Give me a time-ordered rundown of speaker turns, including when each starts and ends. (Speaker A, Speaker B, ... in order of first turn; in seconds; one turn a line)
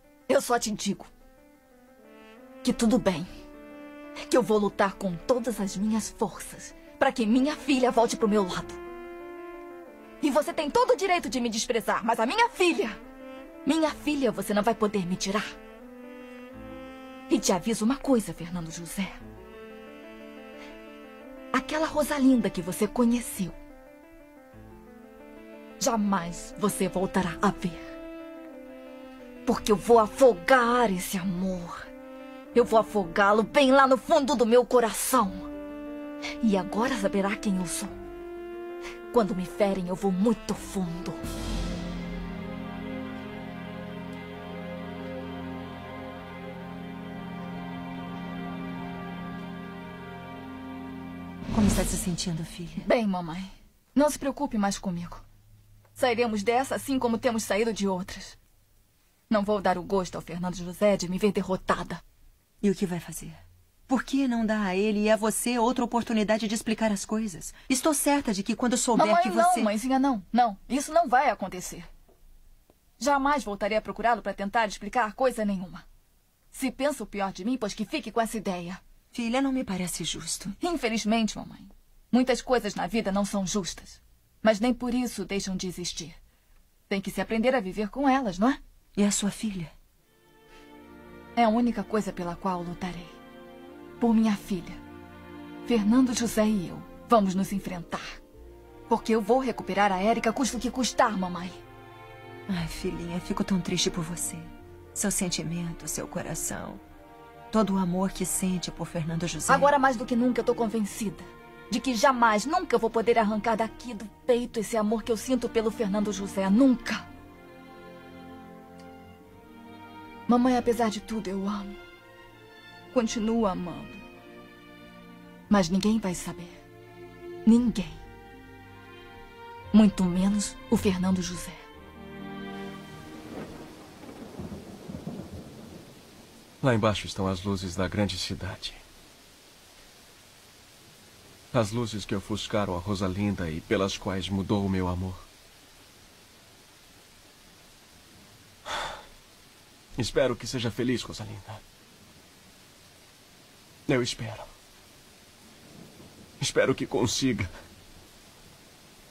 Speaker A: 0.3-1.1
Speaker A: 2.6-3.3
Speaker A: 4.3-8.8
Speaker A: 10.2-13.0
Speaker A: 13.6-15.5
Speaker A: 17.3-19.2
Speaker A: 21.5-23.6
Speaker A: 25.8-27.8
Speaker A: 29.5-31.9
Speaker A: 32.5-35.5
Speaker A: 36.4-37.9
Speaker A: 39.1-41.2
Speaker B: 51.5-52.9
Speaker A: 52.8-55.2
Speaker A: 56.0-58.4
Speaker A: 59.3-62.0
Speaker B: 62.6-69.7
Speaker A: 68.9-71.9
Speaker A: 73.0-75.8
Speaker A: 76.5-78.8
Speaker B: 79.1-80.5
Speaker A: 80.6-86.2
Speaker A: 86.9-88.6
Speaker B: 89.0-89.7
Speaker A: 91.3-93.1
Speaker A: 94.0-94.8
Speaker A: 95.7-98.2
Speaker A: 98.9-101.6
Speaker B: 102.5-106.8
Speaker B: 107.5-109.7
Speaker A: 109.5-117.1
Speaker A: 120.3-121.8
Speaker A: 122.9-124.0
Speaker A: 125.5-126.6
Speaker A: 127.4-128.0
Speaker A: 129.7-131.6
Speaker C: 136.6-138.8
Speaker C: 141.5-145.2
Speaker C: 150.0-151.6
Speaker C: 153.9-154.5
Speaker C: 156.4-157.5